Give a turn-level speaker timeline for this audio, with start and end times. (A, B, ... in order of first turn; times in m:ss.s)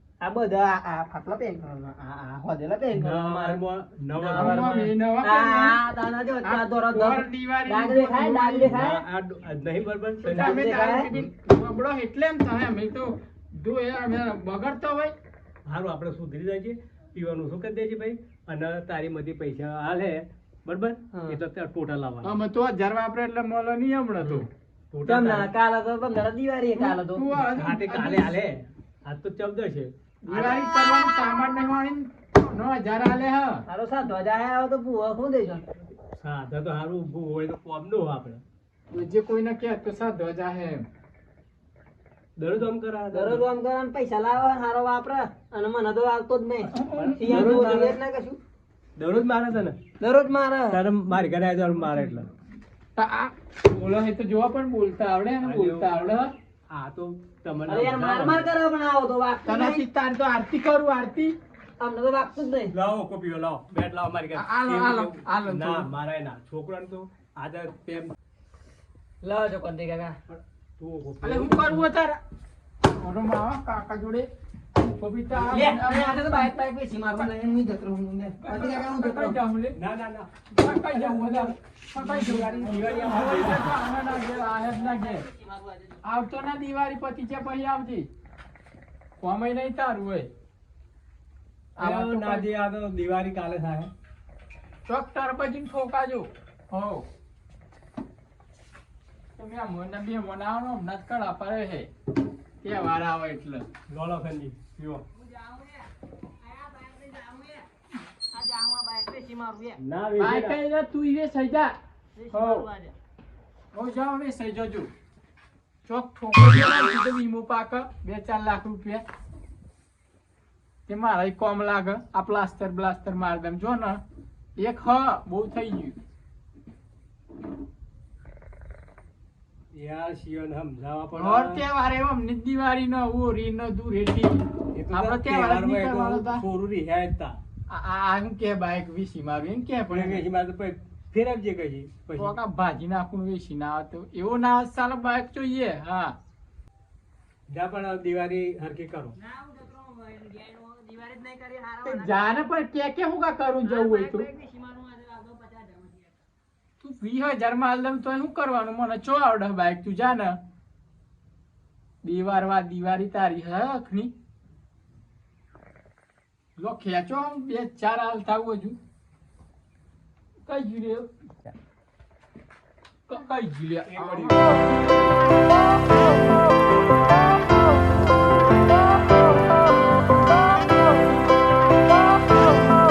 0:00.2-0:03.6 A
0:02.9-0:04.9 B
0:04.2-0:09.0 A
0:04.3-0:05.8 C
0:06.4-0:08.8 C
0:08.7-0:10.8 B
0:10.2-0:11.1 A
0:10.3-0:15.1 C
0:15.6-0:22.4 B
0:21.1-0:21.4 A
0:22.2-0:24.5 C
0:24.9-0:25.5 B
0:25.0-0:27.2 A
0:26.7-0:28.3 C
0:27.4-0:29.9 B
0:30.2-0:33.6 C
0:30.3-0:30.6 A
0:33.7-0:35.8 A
0:36.2-0:38.4 B
0:38.9-0:40.8 C
0:42.4-0:43.5 B
0:43.1-0:48.4 A
0:46.7-0:47.8 C
0:46.8-0:48.0 B
0:49.0-0:49.8 B
0:50.0-0:50.8 A
0:50.7-0:52.3 B
0:53.0-0:56.3 C
0:55.4-0:58.5 B
0:57.6-0:59.8 A
0:59.4-1:01.3 C
1:01.8-1:02.8 A
1:02.7-1:08.1 B
1:04.3-1:05.9 C
1:09.2-1:10.2 A
1:10.3-1:11.8 B
1:11.2-1:12.2 C
1:13.0-1:14.3 C
1:14.8-1:16.5 C
1:15.3-1:19.4 A
1:18.4-1:19.8 C
1:19.7-1:23.8 B
1:20.6-1:25.3 C
1:20.7-1:21.1 A
1:24.8-1:25.6 A
1:26.0-1:28.1 C
1:29.2-1:30.3 C
1:31.8-1:32.5 C
1:31.8-1:33.9 B
1:34.8-1:37.0 C
1:39.4-1:41.9 C
1:42.6-1:43.7 C
1:43.9-1:45.0 B
1:45.1-1:47.6 A
1:48.3-1:49.8 A
1:49.8-1:50.6 B
1:50.2-1:51.8 C
1:52.1-1:52.9 A
1:52.3-1:52.7 C
1:53.7-1:54.9 C
1:55.8-1:59.0 C
2:00.9-2:04.0 C
2:04.6-2:06.0 C
2:09.7-2:11.6 B
2:11.1-2:16.4 C
2:14.7-2:17.4 B
2:17.7-2:20.2 C
2:19.9-2:22.4 B
2:22.2-2:26.2 C
2:27.5-2:29.2 B
2:29.2-2:32.3 A
2:31.8-2:34.3 C
2:33.6-2:36.1 A
2:36.8-2:40.4 C
2:42.0-2:44.1 C
2:46.6-2:48.8 C
2:50.4-2:51.1 C
2:53.1-2:54.6 C
2:53.8-2:54.6 B